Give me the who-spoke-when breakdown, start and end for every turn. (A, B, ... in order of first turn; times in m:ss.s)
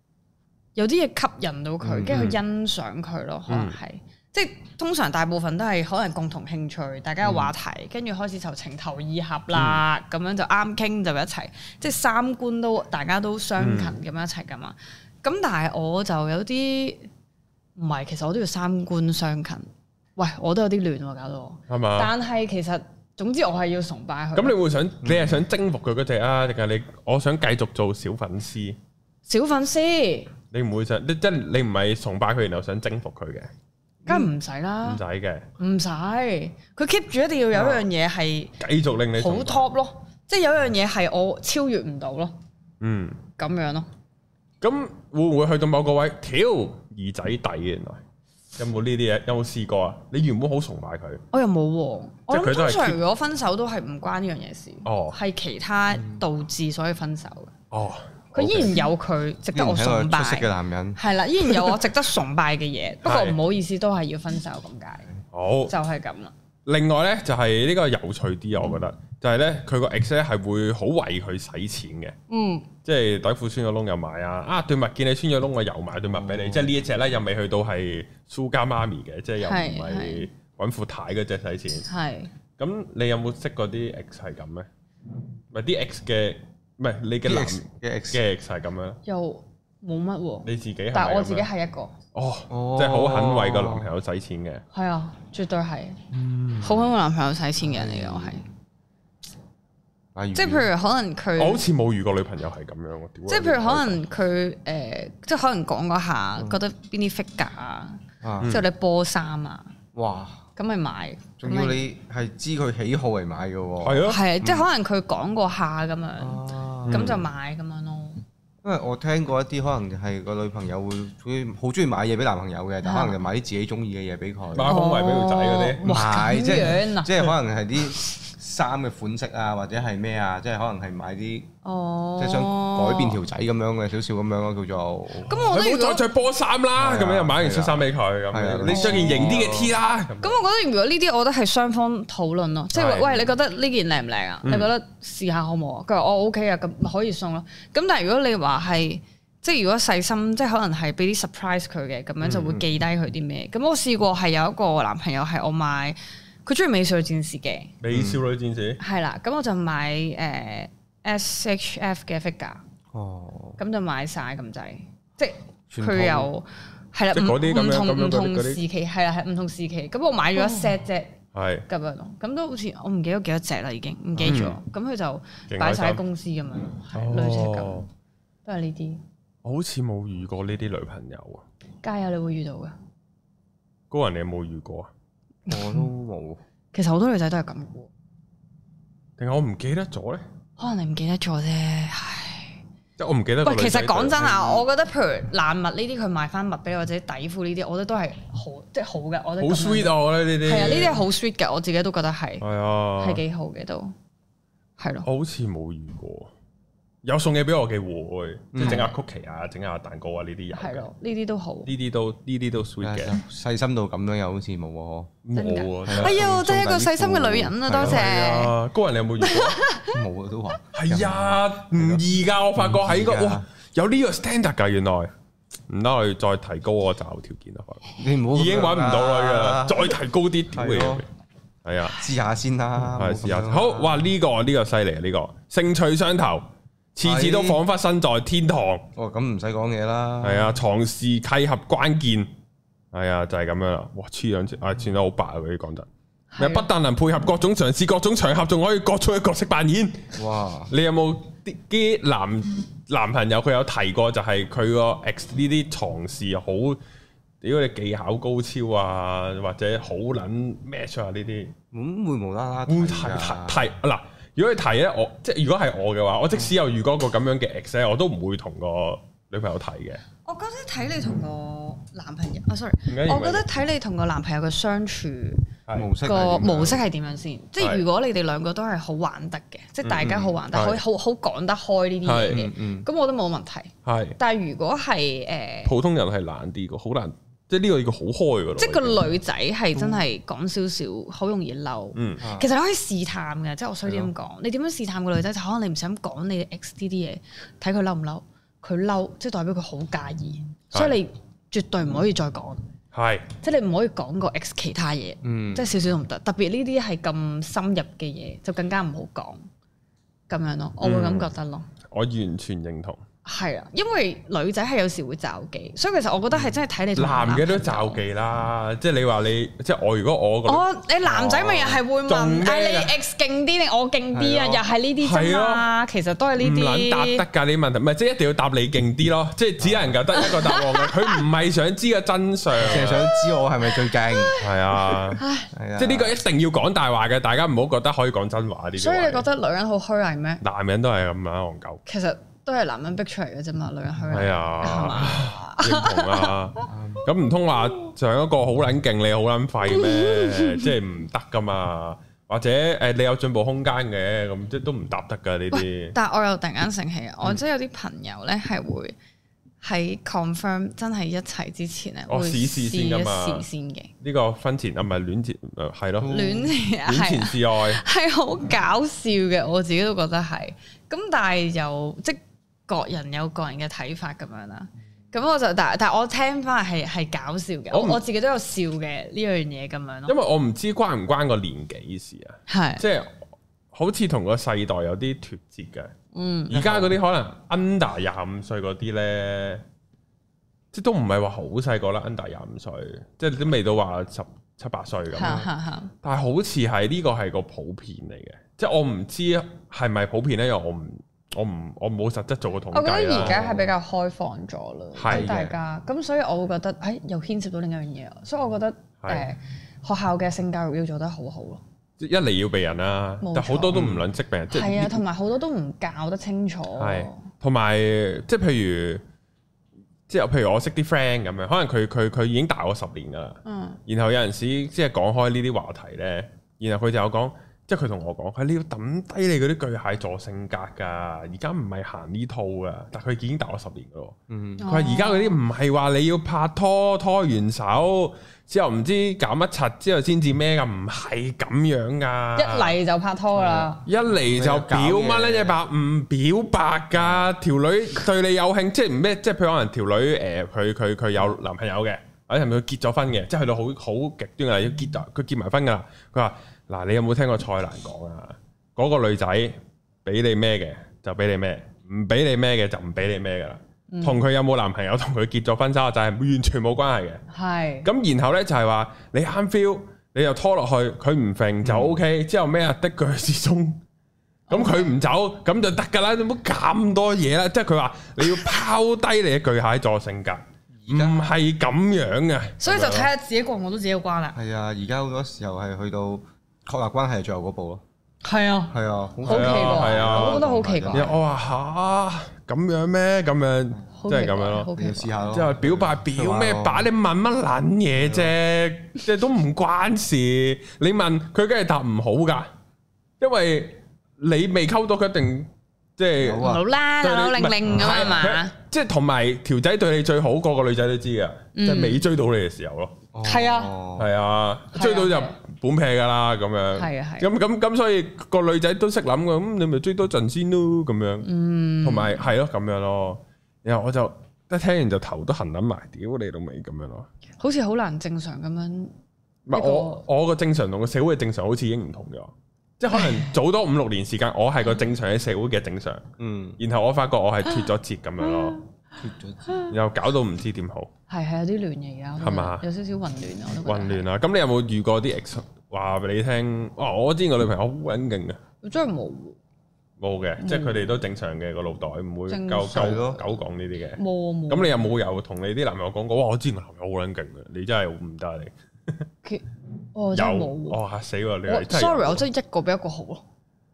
0:00.8-0:17.1 A
0:01.8-0:02.3 B
0:02.1-0:02.4 C
0:03.5-0:03.8 C
0:07.2-0:07.5 B
0:09.5-0:09.8 C
0:13.6-0:14.0 C
0:17.8-0:24.6 A
0:21.7-0:22.1 C
0:24.3-0:28.8 C
0:25.0-0:25.4 B
0:29.2-0:30.3 A
0:30.5-0:33.5 C
0:34.0-0:35.0 A
0:34.8-0:35.5 C
0:35.6-0:38.6 A
0:37.5-0:37.9 B
0:38.6-0:39.6 C
0:39.2-0:42.3 A
0:42.8-0:43.2 C
0:43.4-0:43.9 A
0:44.6-0:48.0 C
0:48.6-0:51.2 C
0:51.3-0:57.5 A
0:52.3-0:53.0 C
0:54.8-0:55.2 C
0:57.7-0:58.8 C
0:58.3-1:05.1 A
0:59.5-1:01.0 B
1:03.0-1:03.4 C
1:05.3-1:05.7 C
1:05.7-1:06.3 A
1:06.6-1:12.2 C
1:12.3-1:12.7 A
1:12.8-1:21.9 C
1:16.1-1:16.7 B
1:19.4-1:20.3 A
1:21.9-1:22.3 A
1:22.6-1:24.7 C
1:25.5-1:29.0 C
1:27.2-1:28.2 B
1:29.0-1:31.9 A
1:30.4-1:31.5 C
1:32.1-1:34.6 C
1:32.5-1:33.9 B
1:34.7-1:36.0 A
1:36.1-1:36.9 C
1:36.6-1:38.4 A
1:37.6-1:38.4 B
1:40.1-1:40.7 B
1:40.3-1:41.6 A
1:41.4-1:44.0 C
1:43.3-1:49.7 A
1:48.2-1:48.6 B
1:49.9-1:50.4 B
1:50.6-1:51.8 A
1:51.4-1:54.7 B
1:53.8-1:54.2 C
1:54.0-1:58.2 A
1:56.2-1:57.2 B
1:56.9-1:57.2 C
1:58.6-2:04.8 B
2:02.8-2:03.2 A
2:04.5-2:05.8 C
2:04.6-2:07.3 A
2:05.8-2:11.5 B
2:11.6-2:13.2 A
2:12.2-2:15.4 B
2:15.3-2:16.0 A
2:15.3-2:20.4 C
2:16.8-2:19.7 B
2:18.7-2:19.4 A
2:20.2-2:37.7 A
2:22.7-2:23.2 C
2:24.4-2:24.7 C
2:32.2-2:32.6 B
2:37.8-2:38.8 C
2:37.9-2:38.2 B
2:38.8-2:42.6 A
2:42.9-2:43.6 B
2:43.6-2:51.2 A
2:45.7-2:46.3 B
2:47.1-2:48.6 C
2:51.3-2:51.6 C
2:51.7-2:57.9 A
2:54.2-2:54.6 C
2:55.5-2:56.0 C
2:56.9-2:57.9 C
2:58.4-2:59.0 A
2:59.4-3:01.4 C
3:01.8-3:02.7 A
3:03.9-3:04.9 C
3:05.5-3:05.8 A
3:05.5-3:06.4 B
3:06.7-3:07.9 A
3:09.2-3:10.2 C
3:10.6-3:12.6 A
3:13.0-3:14.6 C
3:13.4-3:22.4 A
3:19.4-3:21.0 C
3:22.4-3:23.2 C
3:23.0-3:23.9 A
3:24.8-3:25.1 A
3:25.0-3:26.3 C
3:27.0-3:30.9 C
3:28.5-3:28.9 B
3:28.6-3:28.9 A
3:30.5-3:31.7 A
3:31.6-3:33.2 C
3:32.8-3:35.1 B
3:35.2-3:36.2 C
3:35.3-3:38.5 A
3:35.9-3:38.1 B
3:37.8-3:39.6 C
3:39.2-3:40.0 A
3:39.9-3:42.0 B
3:40.7-3:45.1 C
3:42.6-3:43.4 B
3:45.7-3:51.1 C
3:48.0-3:50.0 B
3:50.5-3:51.0 B
3:51.6-3:52.0 C
3:51.9-3:54.1 B
3:52.8-3:58.8 C
3:57.0-3:57.6 B
3:58.9-4:00.6 B
4:00.2-4:02.3 C
4:02.9-4:05.9 C
4:06.3-4:06.7 A
4:06.4-4:10.1 C
4:10.1-4:10.7 B
4:10.7-4:16.8 C
4:17.4-4:21.5 C
4:21.7-4:23.6 B
4:22.7-4:30.0 C
4:30.2-4:35.5 A
4:32.9-4:33.6 C
4:35.7-4:36.8 B
4:36.0-4:45.7 A
4:37.6-4:37.8 C
4:39.8-4:40.8 C
4:40.0-4:40.4 B
4:42.0-4:42.4 C
4:42.3-4:42.9 B
4:43.8-4:44.2 C
4:45.6-4:49.0 C
4:48.6-5:02.6 A
4:49.8-4:50.0 B
4:51.9-4:52.2 C
4:52.2-4:52.5 B
5:02.9-5:03.3 C
5:03.4-5:09.4 A
5:05.2-5:05.8 B
5:10.3-5:11.7 A
5:10.8-5:11.3 C
5:11.9-5:13.0 C
5:13.2-5:18.0 A
5:17.0-5:23.0 C
5:20.4-5:27.2 A
5:24.1-5:24.6 B
5:25.0-5:25.7 C
5:26.4-5:33.0 C
5:29.6-5:30.0 B
5:30.1-5:31.2 A
5:32.6-5:34.4 B
5:32.7-5:35.5 A
5:34.4-5:35.2 C
5:35.5-5:36.2 B
5:35.8-5:39.3 C
5:38.8-5:40.4 A
5:40.4-5:41.8 C
5:41.9-5:46.6 A
5:44.1-5:55.9 C
5:46.7-5:47.0 B
5:49.7-5:50.7 A
5:55.5-5:59.0 A
5:59.6-6:03.9 A
6:02.1-6:03.4 C
6:04.0-6:06.3 C
6:06.0-6:06.5 B
6:06.0-6:20.1 A
6:06.8-6:07.8 C
6:17.7-6:18.0 C
6:20.1-6:23.2 C
6:22.5-6:22.8 A
6:23.7-6:25.9 C
6:26.1-6:26.6 A
6:26.5-6:29.6 C
6:26.5-6:26.9 B
6:30.7-6:35.4 C
6:35.1-6:35.9 A
6:36.0-6:43.6 C
6:42.7-6:51.6 A
6:43.2-6:43.7 B
6:44.9-6:45.3 C
6:45.1-6:45.6 B
6:49.0-6:49.3 C
6:52.0-6:55.0 C
6:53.2-6:53.8 A
6:53.7-6:54.0 B
6:54.5-6:57.2 A
6:56.8-6:59.0 C
7:00.1-7:22.7 C
7:03.4-7:03.8 A
7:14.3-7:14.6 B
7:14.6-7:15.4 A
7:22.4-7:23.8 A
7:23.3-7:25.6 B
7:23.8-7:47.2 C
7:26.9-7:27.3 B
7:43.9-7:44.2 A
7:47.3-7:47.9 A
7:47.8-7:53.8 C
7:51.6-7:52.0 B
7:54.5-7:54.9 A
7:54.5-8:03.1 C
8:00.8-8:01.3 B
8:02.6-8:04.4 A
8:04.3-8:07.8 B
8:08.2-8:11.1 A
8:08.7-8:11.2 B
8:09.3-8:14.7 C
8:14.0-8:15.1 A
8:14.7-8:16.9 B
8:15.3-8:22.5 C
8:18.0-8:18.3 B
8:23.2-8:33.0 C
8:26.2-8:26.6 B
8:26.4-8:28.5 A
8:27.7-8:28.1 B
8:31.6-8:32.0 A
8:33.1-8:34.1 B
8:33.2-8:33.7 A
8:34.0-8:41.3 C
8:34.7-8:35.4 A
8:36.8-8:37.3 A
8:41.2-8:42.2 A
8:41.8-8:47.1 C
8:47.4-8:48.9 A
8:49.5-8:56.0 C
8:49.5-8:50.0 A
8:53.0-8:53.3 A
8:56.2-8:56.6 B
8:56.6-8:58.6 C
8:59.0-8:59.6 B
8:59.7-9:00.9 C
9:01.1-9:04.0 A
9:02.2-9:02.6 C
9:03.6-9:08.4 C
9:08.6-9:09.4 A
9:10.0-9:19.0 C
9:10.4-9:10.9 A
9:12.3-9:13.1 A
9:12.6-9:13.3 B
9:14.0-9:14.9 A
9:19.2-9:20.8 A
9:20.1-9:22.2 C
9:21.5-9:23.2 A